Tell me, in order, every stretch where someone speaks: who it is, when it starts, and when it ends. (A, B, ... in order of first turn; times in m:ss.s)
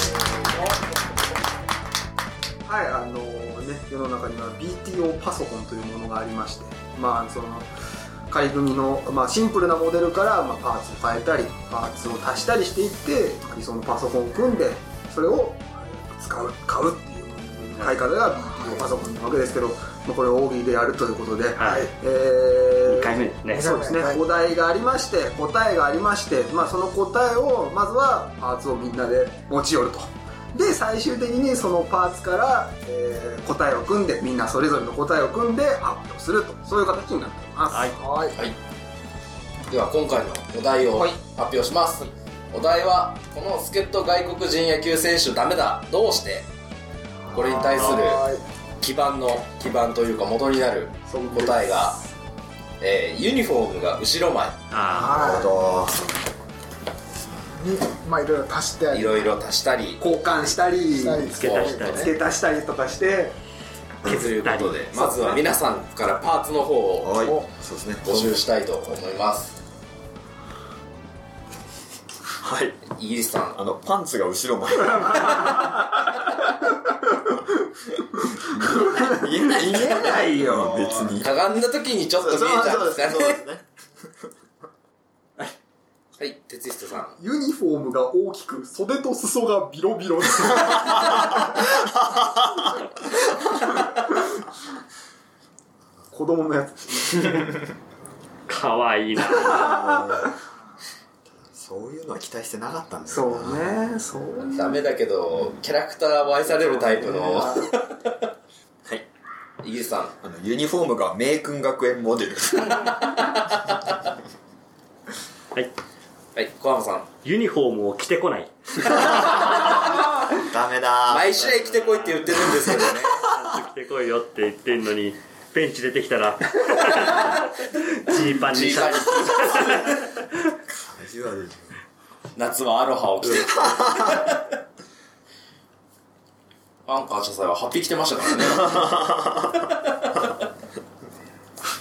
0:00.5-0:00.8 A
0:02.6-0:07.7 B
0:08.3-0:23.2 B
0:18.4-0:18.9 C
0:21.5-0:21.9 D
0:21.6-0:21.9 C
0:22.8-0:23.8 D
0:23.5-0:24.3 C
0:23.7-0:37.9 B
0:37.7-0:38.0 D
0:37.9-0:38.4 C
0:39.7-0:46.5 A
0:47.3-0:48.2 A
0:47.3-0:48.4 C
0:48.8-0:52.0 A
0:51.1-0:51.9 B
0:52.8-0:54.6 A
0:54.7-0:55.2 D
0:54.9-0:55.5 C
0:55.0-0:56.1 E
0:57.5-0:59.3 C
0:58.9-1:00.4 A
1:00.0-1:01.3 B
1:00.9-1:02.2 C
1:01.2-1:02.1 D
1:01.4-1:02.1 A
1:01.9-1:03.4 B
1:04.0-1:05.1 D
1:04.0-1:07.1 A
1:04.9-1:05.4 B
1:07.0-1:08.4 E
1:08.0-1:09.6 A
1:12.4-1:12.8 E
1:12.8-1:13.6 A
1:13.5-1:15.5 E
1:18.4-1:21.3 E
1:18.8-1:21.0 B
1:21.2-1:23.4 A
1:22.1-1:23.6 E
1:26.2-1:27.2 A
1:27.2-1:31.3 B
1:32.4-1:32.8 E
1:36.1-1:37.5 B
1:38.5-1:40.0 D
1:39.4-1:40.3 E
1:41.3-1:43.6 E
1:43.1-1:44.8 B
1:44.5-1:48.3 A
1:46.6-1:47.4 D
1:49.6-1:50.1 A
1:50.2-1:52.8 E
1:52.7-1:53.9 A
1:56.3-1:57.1 A
1:57.2-1:59.5 D
2:00.4-2:01.4 E
2:01.1-2:03.3 A
2:01.4-2:10.0 D
2:08.4-2:10.0 A
2:10.7-2:11.8 E
2:12.4-2:14.4 A
2:16.8-2:20.2 A